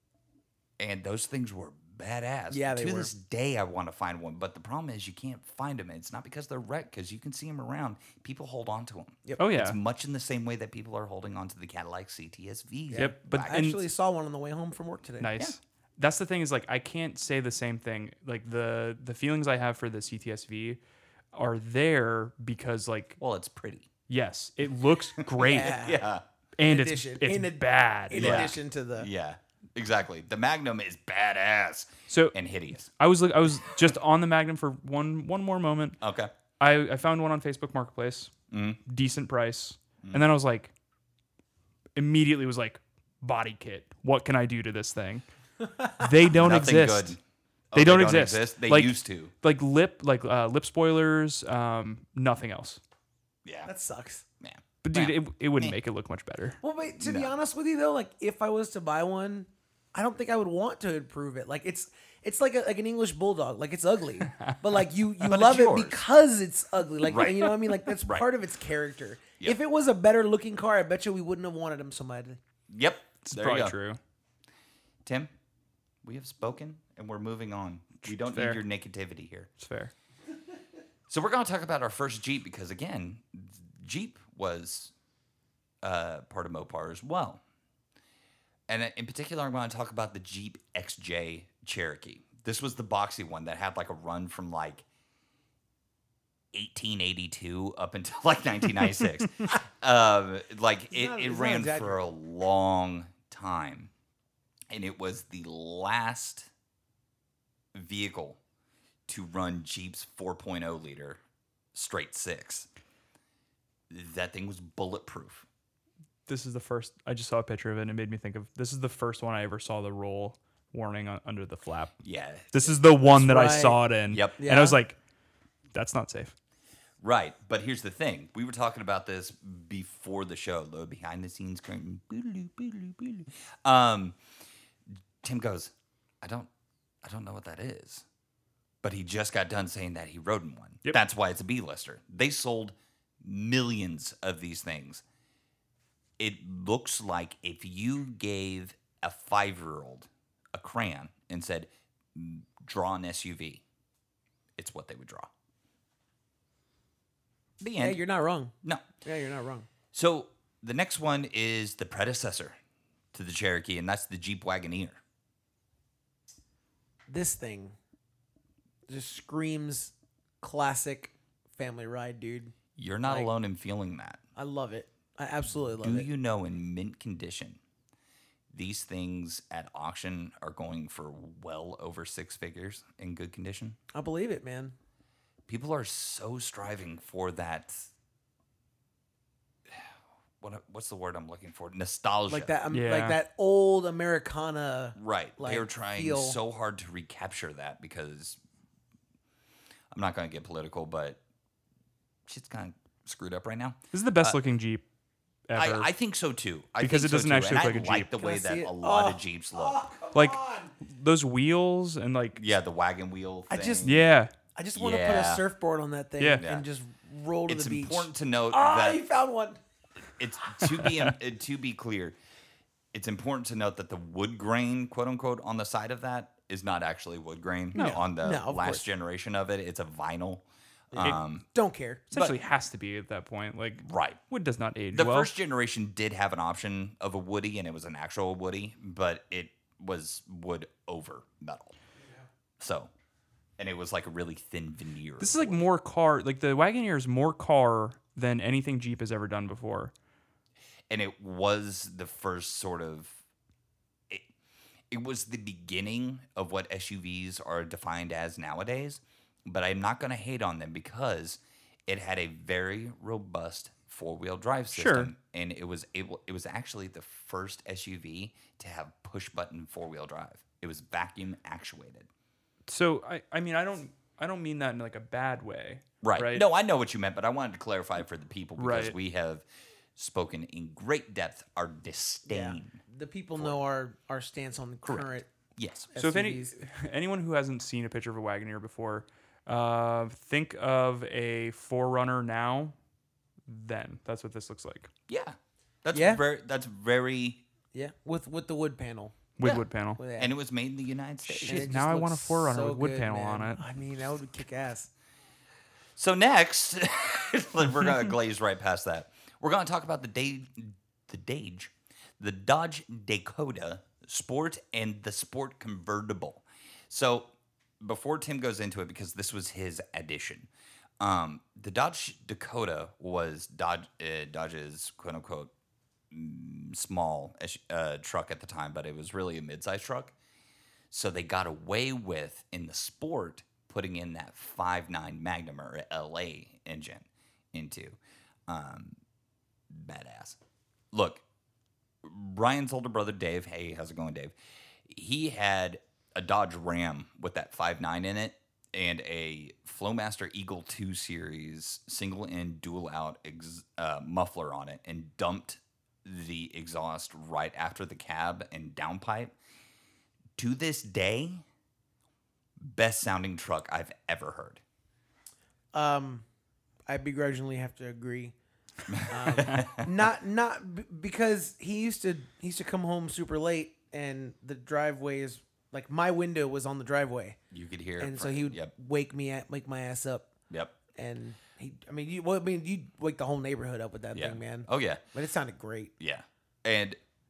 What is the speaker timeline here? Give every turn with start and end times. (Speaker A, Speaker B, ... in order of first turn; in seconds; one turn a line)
Speaker A: 0.8-13.6
Speaker B: 2.5-3.1
Speaker C: 9.4-9.8
Speaker B: 12.9-15.3
Speaker C: 12.9-13.8
Speaker C: 15.2-20.8
Speaker C: 21.3-23.2
Speaker A: 23.2-23.9
Speaker C: 24.1-26.0
Speaker A: 25.2-26.2
Speaker B: 25.4-26.0
Speaker C: 26.6-28.6
Speaker B: 26.6-29.1
Speaker A: 28.1-32.9
Speaker C: 32.1-32.4
Speaker C: 32.9-36.0
Speaker A: 36.0-36.3
Speaker C: 36.6-38.3
Speaker A: 38.5-38.8
Speaker C: 38.9-40.7
Speaker C: 42.0-45.2
Speaker B: 45.6-46.1
Speaker C: 46.0-47.2
Speaker A: 46.3-47.2
Speaker A: 47.7-49.3
Speaker C: 47.7-52.8
Speaker A: 53.5-53.7
Speaker B: 53.7-54.2
Speaker A: 54.4-55.8
Speaker C: 54.8-56.6
Speaker B: 56.6-72.4
Speaker A: 57.0-57.3
Speaker C: 64.2-64.5
Speaker A: 65.2-66.0
Speaker A: 67.1-68.3
Speaker A: 72.7-73.8
Speaker C: 73.2-74.0
Speaker A: 75.0-75.3
Speaker A: 76.0-79.5
Speaker C: 78.1-78.6
Speaker C: 79.6-79.9
Speaker A: 81.1-84.9
Speaker A: 85.8-87.4
Speaker A: 88.7-94.8
Speaker A: 96.5-103.9
Speaker B: 100.9-102.0
Speaker A: 104.7-106.5
Speaker A: 107.7-108.4
Speaker A: 109.1-111.2
Speaker A: 111.7-112.7
Speaker A: 113.9-115.5
Speaker C: 116.3-122.0
Speaker A: 122.0-122.8
Speaker C: 122.5-125.0
Speaker B: 123.1-123.9
Speaker A: 124.1-124.4
Speaker B: 124.4-124.8
Speaker C: 125.7-126.3
Speaker A: 127.0-134.2
Speaker A: 135.2-136.5
Speaker A: 137.0-138.1
Speaker A: 138.8-145.0
Speaker A: 146.2-153.6
Speaker A: 154.6-155.3
Speaker A: 157.6-158.0
Speaker B: 157.8-159.7
Speaker A: 159.9-162.6
Speaker A: 163.1-165.0
Speaker B: 167.1-167.8
Speaker B: 168.9-173.3
Speaker A: 172.8-174.2
Speaker B: 174.4-176.1
Speaker A: 175.8-177.6
Speaker A: 178.5-183.8
Speaker B: 183.9-184.7
Speaker A: 185.5-187.9
Speaker A: 189.7-192.5
Speaker B: 192.3-196.4
Speaker C: 192.7-193.2
Speaker A: 195.0-198.4
Speaker A: 199.9-201.2
Speaker A: 202.3-204.4
Speaker C: 203.9-204.8
Speaker C: 205.5-205.9
Speaker A: 205.6-209.8
Speaker C: 206.8-208.1
Speaker B: 208.2-210.7
Speaker C: 210.1-212.4
Speaker A: 212.4-214.1
Speaker B: 213.5-214.0
Speaker C: 213.8-214.3
Speaker B: 214.6-219.6
Speaker A: 214.8-215.4
Speaker A: 216.4-216.7
Speaker A: 217.5-219.0
Speaker A: 220.2-222.2
Speaker C: 220.7-221.1
Speaker A: 222.9-231.4
Speaker C: 227.8-228.0
Speaker B: 227.8-228.9
Speaker B: 230.9-232.1
Speaker C: 232.1-235.3
Speaker A: 233.8-234.2
Speaker A: 234.9-241.7
Speaker A: 242.6-242.9
Speaker A: 243.6-245.6
Speaker C: 245.2-249.9
Speaker A: 250.9-253.2
Speaker A: 254.9-272.1
Speaker C: 264.7-265.1
Speaker C: 272.7-276.4
Speaker A: 276.0-279.4
Speaker C: 278.6-279.0
Speaker A: 280.0-282.8
Speaker B: 282.3-285.3
Speaker A: 284.9-285.9
Speaker B: 285.9-286.6
Speaker C: 286.0-292.8
Speaker C: 293.5-294.9
Speaker A: 295.1-297.4
Speaker B: 295.9-296.2
Speaker B: 297.7-299.2
Speaker C: 299.4-300.0
Speaker A: 299.4-301.8
Speaker B: 300.0-300.3
Speaker C: 301.3-303.6
Speaker B: 301.4-304.9
Speaker A: 306.0-320.5
Speaker A: 321.0-325.5
Speaker A: 326.1-330.1
Speaker A: 330.9-338.9
Speaker A: 339.7-340.4
Speaker A: 340.9-341.2
Speaker A: 342.0-344.4
Speaker A: 344.9-359.4
Speaker A: 360.4-361.4
Speaker A: 362.6-364.6
Speaker B: 365.7-366.2
Speaker B: 366.9-368.4
Speaker A: 368.9-369.9
Speaker B: 368.9-377.4
Speaker A: 377.5-378.7
Speaker B: 378.0-380.3
Speaker A: 380.5-380.8
Speaker B: 380.9-385.9
Speaker A: 384.1-385.0
Speaker A: 386.0-387.0